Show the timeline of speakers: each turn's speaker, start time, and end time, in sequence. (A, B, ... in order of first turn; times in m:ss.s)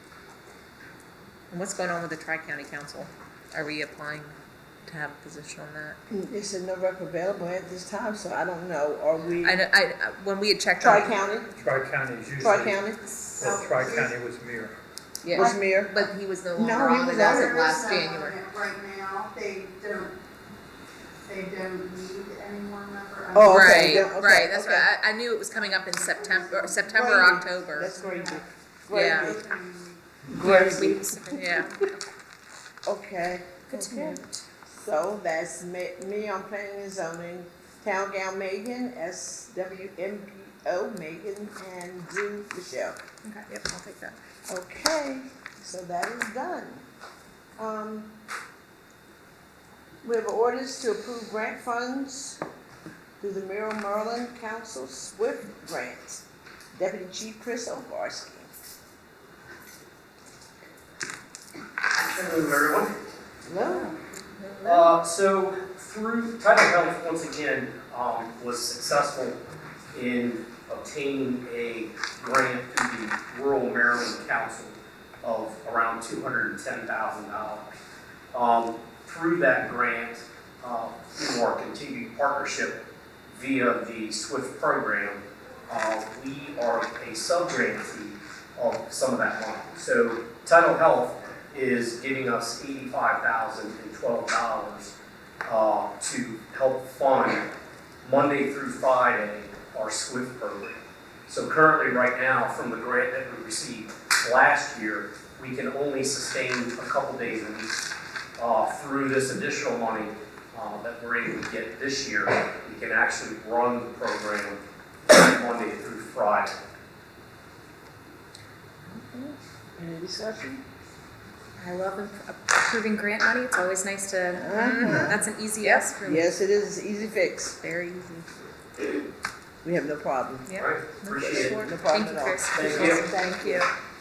0:01.5-0:04.4 A
0:04.9-0:06.0 A
0:06.1-0:09.6 B
0:09.4-0:11.1 A
0:10.8-0:11.5 B
0:11.6-0:14.8 C
0:12.4-0:13.0 B
0:13.4-0:14.1 D
0:15.2-0:18.4 A
0:15.4-0:17.6 B
0:17.1-0:20.1 D
0:21.2-0:24.0 D
0:23.3-0:24.9 B
0:23.4-0:27.9 A
0:26.1-0:26.8 D
0:26.9-0:29.4 B
0:28.0-0:28.4 D
0:28.9-0:29.3 A
0:29.2-0:30.0 D
0:30.3-0:31.4 B
0:30.4-0:32.0 E
0:31.3-0:31.8 A
0:32.8-0:43.0 B
0:33.7-0:34.2 A
0:33.9-0:34.4 E
0:43.5-0:44.2 A
0:44.5-0:46.8 B
0:47.6-0:48.1 B
0:50.0-0:52.4 B
0:53.2-0:56.2 B
0:56.7-0:58.5 B
1:01.9-1:02.9 F
1:03.4-1:03.9 B
1:03.7-1:04.9 A
1:04.6-1:09.4 F
1:09.9-1:17.7 F
1:18.3-1:22.8 F
1:23.3-1:34.9 F
1:35.4-1:37.5 F
1:38.0-1:47.8 F
1:48.4-1:54.6 F
1:55.1-1:56.5 F
1:59.1-2:00.6 B
2:01.6-2:04.5 E
2:04.3-2:05.2 B
2:04.5-2:06.3 A
2:05.1-2:06.0 E
2:06.0-2:07.6 B
2:07.6-2:08.3 A
2:09.6-2:10.5 B
2:10.5-2:13.7 A
2:10.5-2:11.6 F
2:11.1-2:13.6 B
2:11.9-2:13.2 E
2:12.5-2:13.1 F